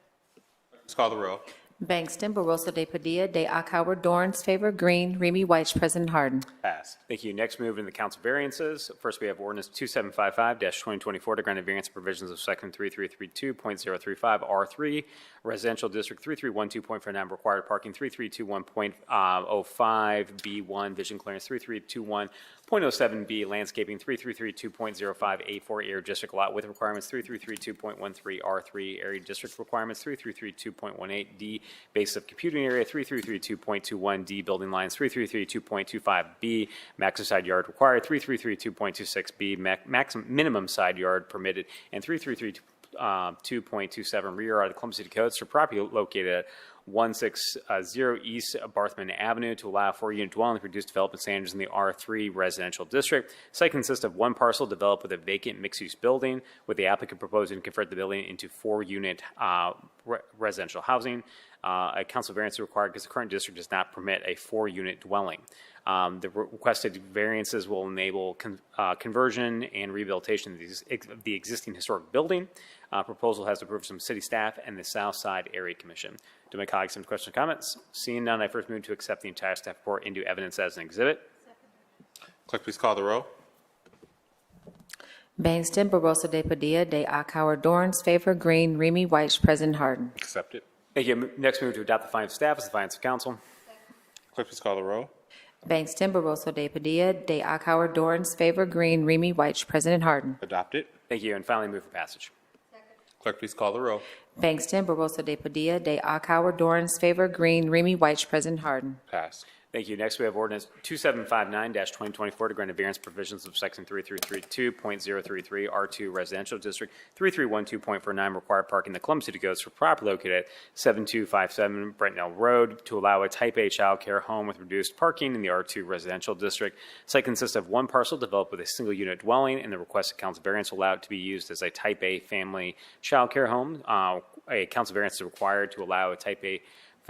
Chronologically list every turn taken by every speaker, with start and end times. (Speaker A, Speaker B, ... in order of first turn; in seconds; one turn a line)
Speaker A: 0.8-1.4
Speaker B: 1.8-6.5
Speaker A: 6.6-7.0
Speaker C: 7.1-81.2
Speaker A: 82.5-83.3
Speaker B: 85.4-90.1
Speaker A: 90.2-90.6
Speaker C: 90.9-93.4
Speaker A: 94.3-95.1
Speaker B: 95.7-100.4
Speaker A: 100.4-100.9
Speaker C: 101.1-102.3
Speaker A: 103.2-104.0
Speaker B: 104.4-109.0
Speaker A: 109.1-109.4
Speaker C: 109.7-136.6